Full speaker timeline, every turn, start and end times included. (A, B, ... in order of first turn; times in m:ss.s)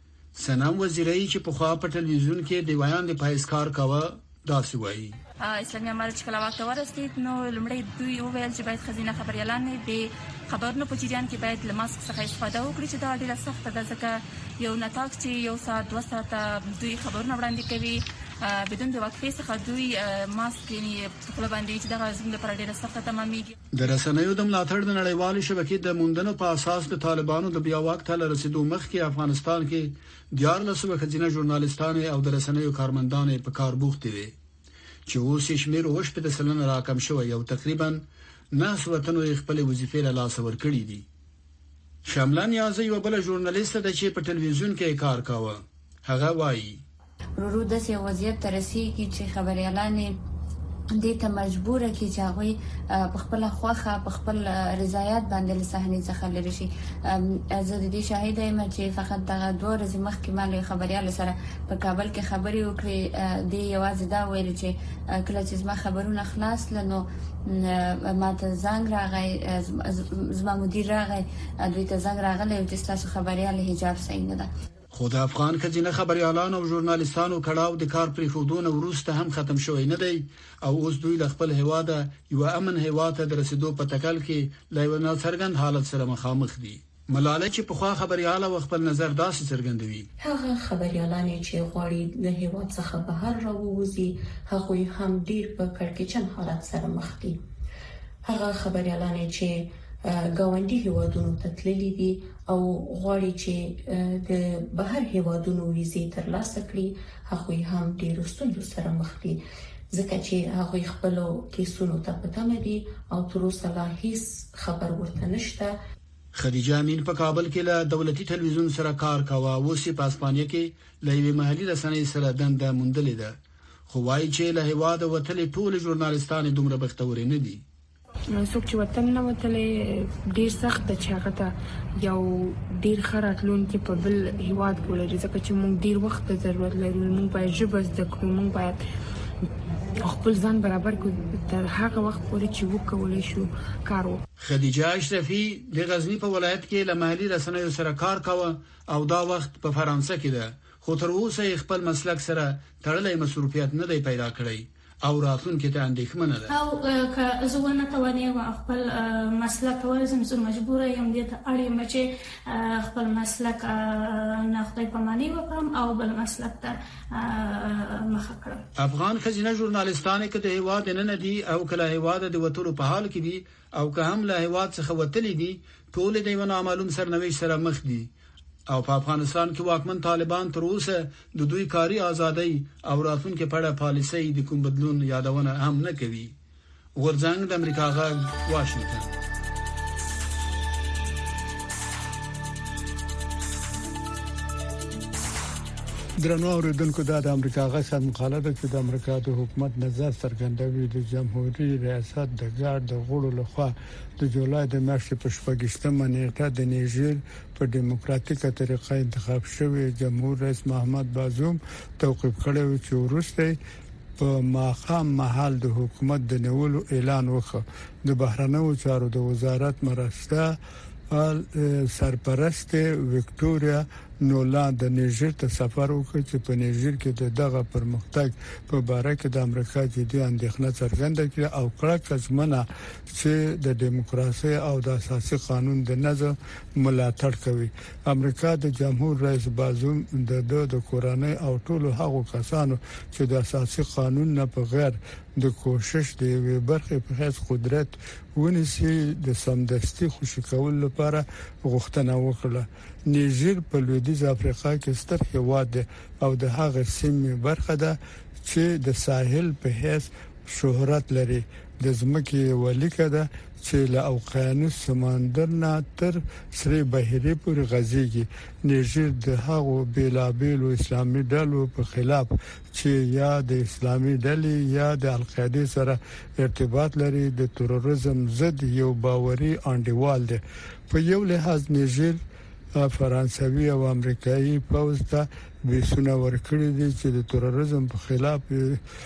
0:00.4-0:05.2 A
0:05.4-0:23.5 B
0:23.7-0:34.3 A
0:35.1-0:41.0 A
0:42.0-0:46.8 A
0:47.4-0:50.2 C
0:50.9-1:14.5 C
1:14.9-1:30.1 A
1:30.2-1:37.4 D
1:38.2-1:55.8 D
1:56.3-2:03.4 A
2:03.9-2:07.6 A
2:08.3-2:18.8 E
2:20.0-2:24.2 E
2:24.4-2:36.5 A
2:36.5-2:48.6 F
2:48.8-2:58.1 A
2:58.7-3:06.3 A
3:07.0-3:09.1 A
3:16.2-3:33.6 G
3:34.2-3:40.5 G
3:41.1-4:42.2 G
4:42.8-4:48.8 G